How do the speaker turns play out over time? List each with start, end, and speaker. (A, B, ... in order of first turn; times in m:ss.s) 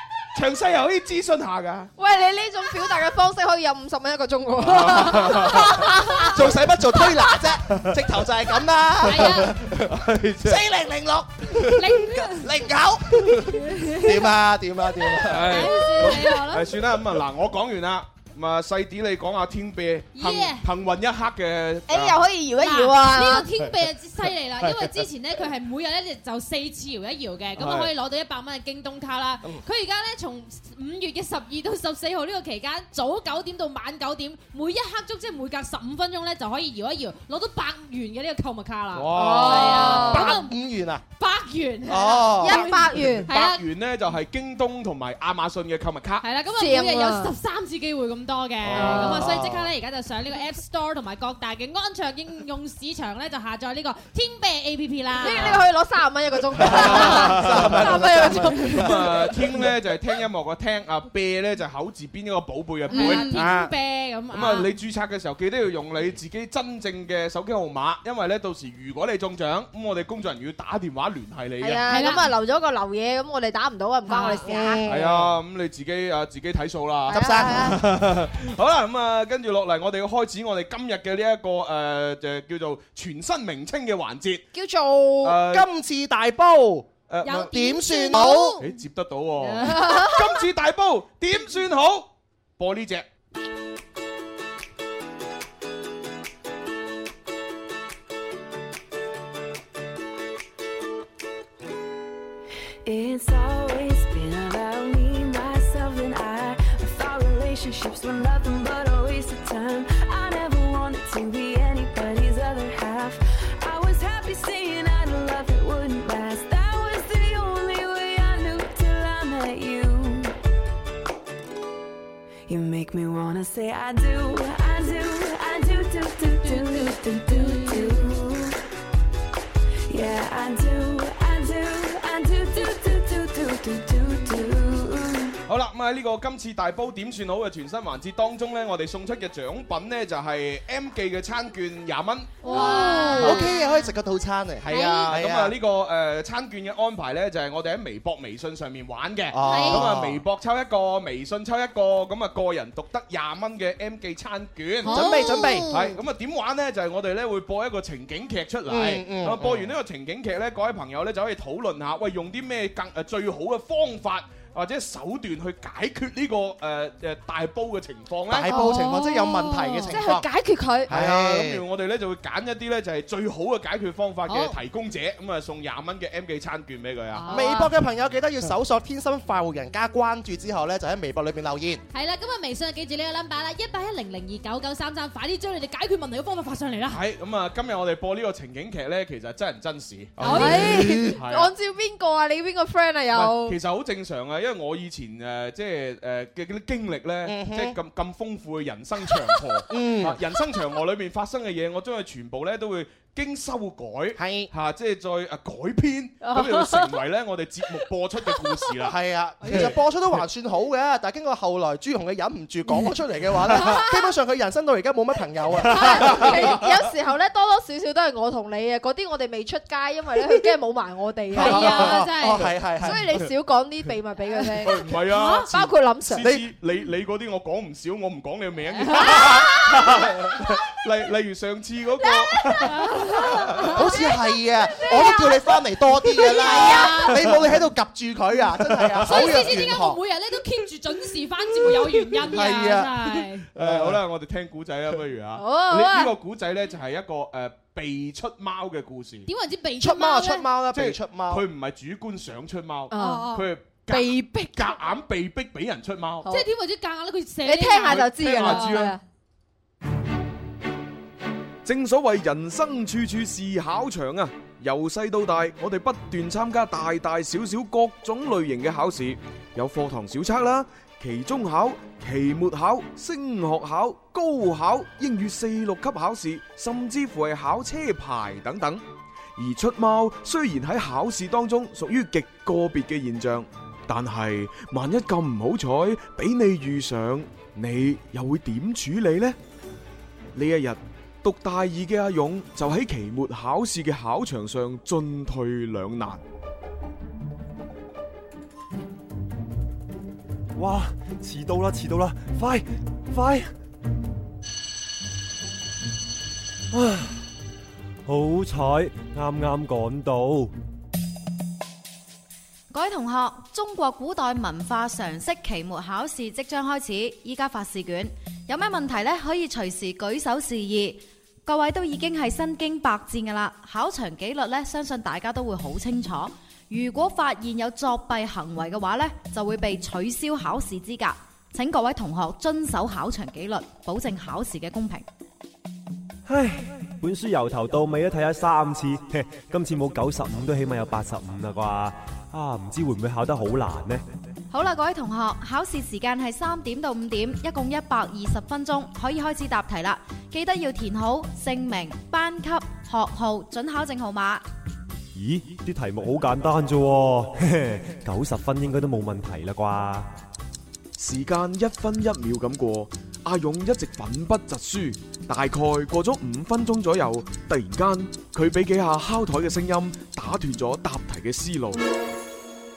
0:00.3-0:01.9 A
0:02.0-0:06.4 B
0:04.6-0:05.9 A
0:06.2-0:16.1 C
0:07.7-0:08.0 A
0:09.0-0:09.5 D
0:09.0-0:10.6 A
0:11.8-0:12.5 D
0:15.2-0:22.2 A
0:15.4-0:16.7 D
0:20.2-0:20.7 D
0:21.9-0:23.5 B
0:22.6-0:40.6 D
0:24.6-0:25.0 A
0:27.6-0:27.9 A
0:38.9-0:40.3 A
0:39.1-0:40.4 B
0:39.3-0:41.0 C
0:41.2-0:43.6 D
0:41.8-0:42.8 C
0:42.4-0:43.3 B
0:43.3-0:46.3 A
0:46.2-0:55.6 D
0:46.6-0:47.3 B
0:48.6-0:49.7 A
0:48.8-0:49.3 B
0:55.2-0:59.1 B
0:56.6-1:03.7 A
0:56.6-0:58.9 C
0:57.0-0:57.3 D
1:02.9-1:03.5 B
1:02.9-1:04.7 D
1:04.3-1:11.9 A
1:11.6-1:14.9 B
1:11.9-1:12.3 D
1:14.1-1:14.5 D
1:14.4-1:15.3 C
1:14.9-1:24.5 A
1:17.1-1:17.8 B
1:17.1-1:17.8 C
1:24.5-1:25.4 B
1:25.2-1:25.7 A
1:25.5-1:28.6 C
1:27.1-1:27.5 A
1:27.3-1:28.5 D
1:27.6-1:28.6 B
1:28.6-1:33.1 A
1:29.6-1:30.2 B
1:42.8-2:00.4 E
2:02.5-2:08.6 E
2:09.9-2:15.4 E
2:15.5-2:23.5 A
2:22.4-2:23.6 D
2:22.5-2:23.4 B
2:22.5-2:25.6 C
2:24.6-2:48.7 A
2:24.7-2:25.2 D
2:29.3-2:30.2 C
2:29.4-2:29.9 D
2:34.8-2:35.4 D
2:34.9-2:35.8 C
2:38.7-2:39.8 C
2:48.3-2:50.3 C
2:48.5-2:50.9 B
2:48.7-2:50.0 D
2:50.9-2:51.6 C
2:50.9-2:57.3 A
2:54.3-2:54.6 D
2:57.1-2:57.7 D
2:57.3-3:01.8 C
2:57.3-2:57.6 B
3:01.9-3:07.0 D
3:06.9-3:11.5 A
3:10.2-3:11.2 C
3:10.2-3:10.6 D
3:10.2-3:13.6 B
3:13.1-3:29.0 A
3:17.2-3:17.8 C
3:19.7-3:20.2 C
3:24.2-3:24.5 C
3:26.2-3:27.0 B
3:28.9-3:36.6 C
3:29.5-3:29.7 A
3:33.5-3:34.0 B
3:35.7-3:42.1 B
3:35.8-3:36.7 A
3:41.3-3:42.5 D
3:41.4-3:43.0 C
3:42.8-3:46.3 B
3:42.9-3:43.2 A
3:44.6-3:53.8 A
3:45.1-3:45.5 D
3:48.9-3:49.5 D
3:48.9-3:49.9 B
3:52.4-3:54.1 B
3:52.7-3:54.2 D
3:53.7-4:00.0 C
3:54.7-3:55.5 D
3:56.0-3:57.5 D
3:56.4-3:57.0 B
3:59.0-4:03.5 D
4:02.2-4:04.0 C
4:03.6-4:09.3 A
4:05.4-4:06.1 B
4:09.3-4:10.5 D
4:09.8-4:11.4 C
4:10.7-4:16.3 A
4:12.9-4:13.3 B
4:12.9-4:13.5 D
4:13.9-4:14.8 B
4:16.3-4:18.8 D
4:17.4-4:19.0 B
4:17.9-4:19.0 A
4:21.6-4:38.8 F
4:39.4-4:49.4 F
4:50.3-4:56.2 F
5:00.6-5:03.5 G
5:06.7-5:07.2 G
5:08.1-5:10.5 G
5:12.7-5:35.0 H
5:36.3-5:44.0 G
5:44.5-5:54.4 H
5:55.2-6:00.1 G
6:01.0-6:11.8 F